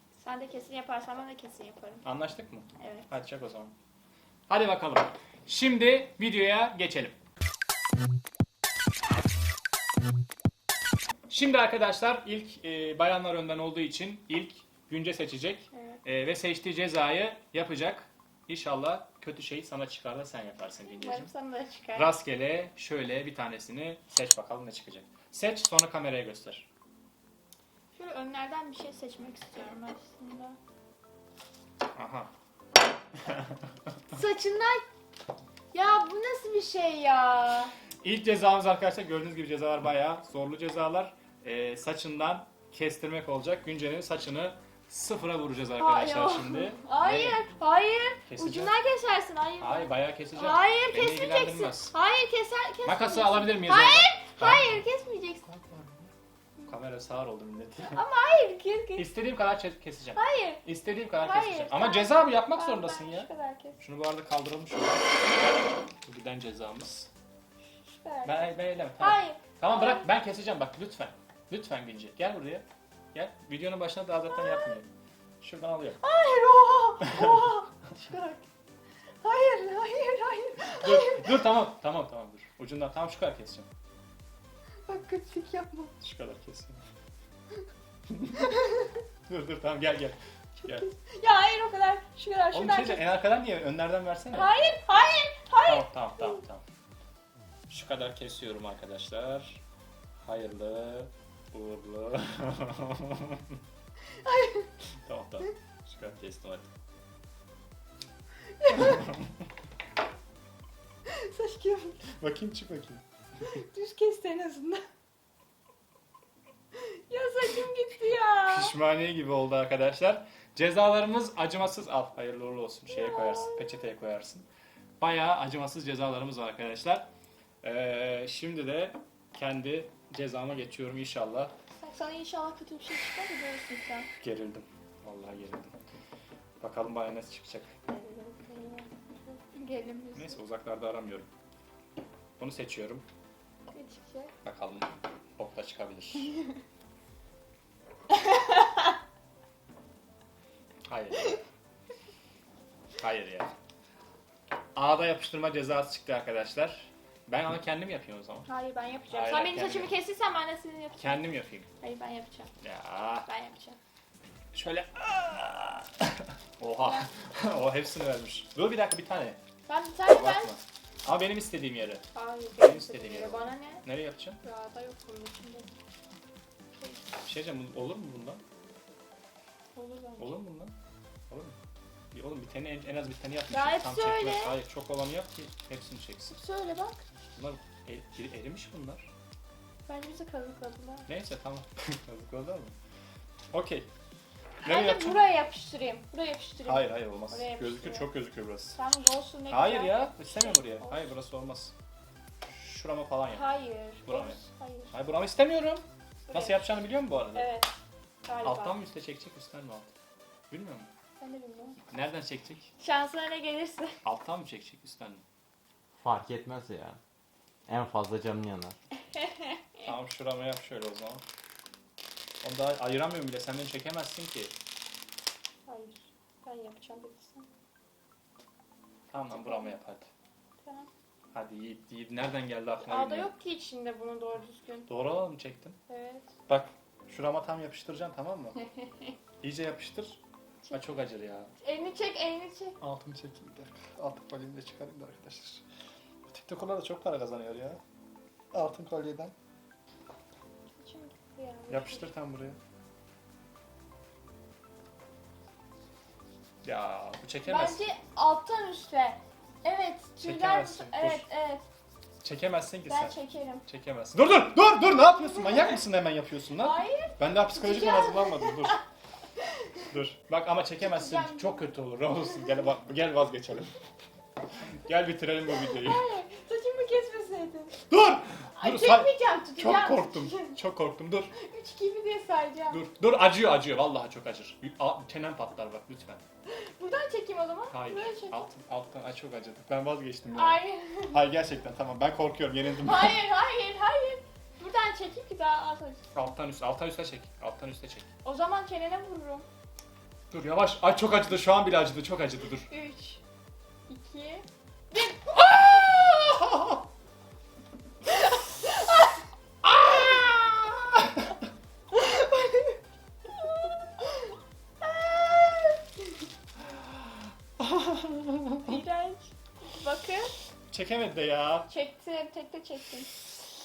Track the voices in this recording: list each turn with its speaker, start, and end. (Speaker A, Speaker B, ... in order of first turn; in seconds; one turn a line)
Speaker A: 0.2-2.0
Speaker B: 2.0-3.7
Speaker A: 2.8-3.1
Speaker B: 4.5-7.2
Speaker B: 11.3-21.3
Speaker A: 15.7-16.0
Speaker A: 20.9-22.1
Speaker B: 21.9-26.7
Speaker A: 27.9-30.6
Speaker B: 31.9-32.3
Speaker B: 33.2-33.7
Speaker A: 34.1-34.8
Speaker A: 35.7-37.7
Speaker B: 38.0-47.5
Speaker A: 45.8-55.5
Speaker B: 48.3-48.7
Speaker B: 49.6-51.9
Speaker B: 52.8-54.8
Speaker B: 55.5-56.1
Speaker B: 56.6-58.0
Speaker A: 57.8-59.1
Speaker B: 59.0-65.3
Speaker A: 60.1-60.6
Speaker A: 61.2-63.8
Speaker B: 66.0-67.1
Speaker A: 67.9-70.1
Speaker B: 68.2-74.9
Speaker A: 74.3-74.7
Speaker B: 75.4-76.0
Speaker A: 76.0-78.5
Speaker B: 77.0-77.3
Speaker A: 79.2-81.4
Speaker B: 80.7-83.7
Speaker A: 84.9-85.9
Speaker B: 86.0-86.8
Speaker B: 88.1-88.5
Speaker A: 88.4-89.0
Speaker B: 89.3-90.9
Speaker A: 90.6-93.0
Speaker B: 92.5-94.5
Speaker A: 94.3-96.4
Speaker B: 95.6-96.6
Speaker B: 97.7-99.6
Speaker B: 100.2-103.5
Speaker A: 104.2-104.7
Speaker B: 105.0-106.7
Speaker A: 108.6-109.0
Speaker A: 111.1-112.0
Speaker B: 112.1-113.0
Speaker A: 113.5-114.8
Speaker A: 116.7-118.7
Speaker B: 118.4-124.5
Speaker A: 122.9-123.7
Speaker B: 125.0-127.1
Speaker B: 127.6-131.5
Speaker A: 131.8-134.1
Speaker B: 134.2-135.8
Speaker B: 136.6-137.8
Speaker A: 137.9-140.4
Speaker B: 140.1-141.3
Speaker B: 142.4-143.0
Speaker A: 143.7-144.3
Speaker B: 144.4-146.3
Speaker A: 148.3-148.8
Speaker B: 150.9-151.4
Speaker B: 153.0-153.5
Speaker B: 154.8-158.5
Speaker A: 158.5-161.2
Speaker B: 159.1-159.9
Speaker B: 161.0-161.7
Speaker A: 161.8-162.5
Speaker B: 162.6-163.3
Speaker A: 163.2-163.8
Speaker B: 164.5-169.4
Speaker A: 166.8-167.1
Speaker A: 169.7-170.5
Speaker B: 170.1-172.0
Speaker A: 172.1-173.8
Speaker B: 172.6-174.4
Speaker A: 174.4-175.7
Speaker A: 176.8-177.1
Speaker B: 177.2-178.4
Speaker A: 179.8-180.4
Speaker B: 180.2-180.7
Speaker B: 181.3-181.6
Speaker B: 182.1-186.4
Speaker A: 183.5-184.6
Speaker A: 186.3-187.0
Speaker B: 187.3-189.1
Speaker A: 189.9-191.1
Speaker B: 191.1-192.8
Speaker B: 193.5-193.9
Speaker B: 194.6-195.2
Speaker A: 194.6-198.1
Speaker B: 196.6-198.8
Speaker A: 198.7-201.1
Speaker B: 199.5-201.7
Speaker B: 202.5-203.5
Speaker A: 203.3-204.9
Speaker B: 204.0-207.5
Speaker A: 206.3-206.6
Speaker A: 207.3-207.7
Speaker A: 208.2-208.8
Speaker B: 208.4-209.9
Speaker B: 210.5-210.9
Speaker A: 211.2-211.8
Speaker B: 211.9-212.7
Speaker A: 212.8-214.0
Speaker B: 214.0-215.2
Speaker C: 216.0-217.0
Speaker C: 217.7-218.8
Speaker A: 219.2-219.6
Speaker B: 219.8-221.2
Speaker B: 222.4-224.5
Speaker A: 225.7-227.5
Speaker B: 229.1-230.1
Speaker A: 229.3-229.8
Speaker A: 230.6-230.9
Speaker B: 231.3-233.3
Speaker A: 232.8-234.9
Speaker B: 234.9-235.8
Speaker A: 235.9-236.3
Speaker B: 236.5-238.6
Speaker B: 239.4-240.2
Speaker B: 240.7-241.5
Speaker A: 241.6-242.8
Speaker B: 242.8-245.6
Speaker B: 246.3-247.8
Speaker B: 248.5-249.3
Speaker A: 250.8-252.1
Speaker B: 251.7-252.6
Speaker B: 256.6-257.8
Speaker A: 257.4-261.6
Speaker B: 260.2-261.3
Speaker B: 262.2-268.8
Speaker A: 262.9-263.6
Speaker A: 265.4-265.8
Speaker A: 266.6-268.8
Speaker A: 269.4-269.8
Speaker B: 269.9-273.7
Speaker A: 270.8-271.7
Speaker B: 274.7-276.0
Speaker A: 275.6-277.8
Speaker B: 277.9-281.3
Speaker A: 278.6-280.6
Speaker A: 281.3-282.8
Speaker B: 282.7-286.2
Speaker A: 286.5-288.5
Speaker B: 287.7-293.2
Speaker A: 290.3-291.2
Speaker A: 292.8-296.0
Speaker B: 296.1-298.1
Speaker A: 298.2-299.5
Speaker B: 300.3-302.7
Speaker A: 302.7-303.2
Speaker A: 303.9-306.5
Speaker A: 308.1-309.1
Speaker B: 309.6-311.3
Speaker A: 309.8-310.6
Speaker A: 311.9-316.0
Speaker B: 316.7-318.7
Speaker A: 318.6-320.3
Speaker B: 320.7-321.7
Speaker A: 321.7-323.1